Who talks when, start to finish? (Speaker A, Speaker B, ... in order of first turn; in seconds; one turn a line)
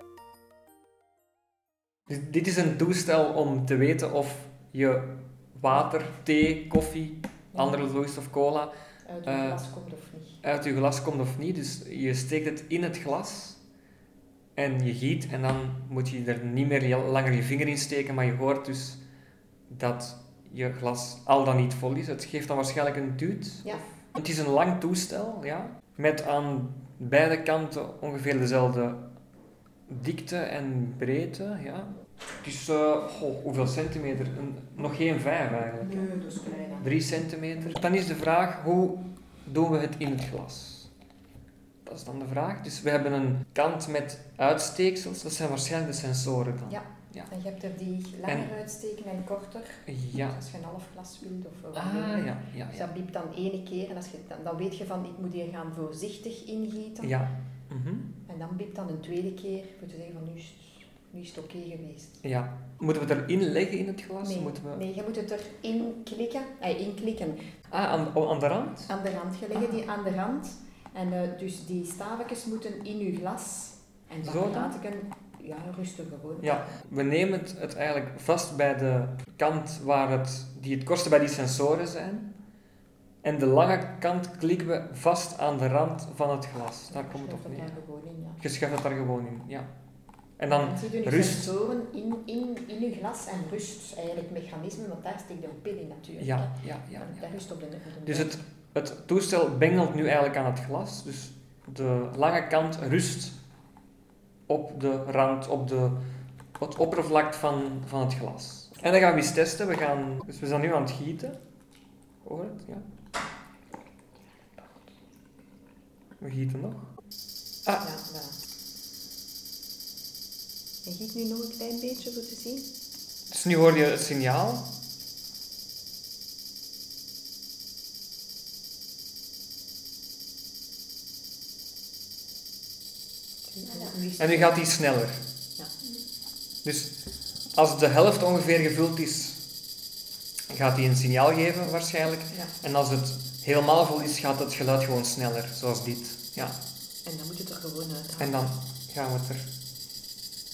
Speaker A: 2.1-8.7
Speaker B: 7.5-7.9
Speaker B: 9.1-10.4
Speaker A: 9.3-9.7
Speaker A: 10.4-13.6
Speaker A: 14.6-19.0
Speaker A: 19.7-29.2
Speaker A: 29.9-31.9
Speaker A: 32.4-36.1
Speaker B: 35.8-36.9
Speaker A: 36.8-40.9
Speaker A: 41.9-47.3
Speaker B: 46.7-57.2
Speaker A: 49.9-50.4
Speaker A: 51.7-52.9
Speaker A: 57.0-58.1
Speaker B: 58.3-62.2
Speaker A: 62.2-64.8
Speaker B: 64.2-67.4
Speaker A: 67.7-68.9
Speaker B: 68.9-76.7
Speaker A: 74.2-74.8
Speaker A: 76.4-82.3
Speaker A: 83.2-87.8
Speaker B: 86.9-88.4
Speaker A: 88.4-89.7
Speaker A: 90.4-91.6
Speaker B: 90.5-98.4
Speaker A: 96.2-97.4
Speaker A: 98.0-103.4
Speaker A: 104.5-106.0
Speaker A: 106.6-111.4
Speaker A: 112.2-112.8
Speaker A: 116.2-116.9
Speaker B: 117.8-118.4
Speaker B: 120.8-122.7
Speaker A: 123.3-124.7
Speaker B: 133.5-134.7
Speaker A: 134.2-135.2
Speaker A: 136.6-136.9
Speaker A: 137.5-139.4
Speaker A: 140.5-146.6
Speaker B: 147.0-148.5
Speaker A: 148.2-149.5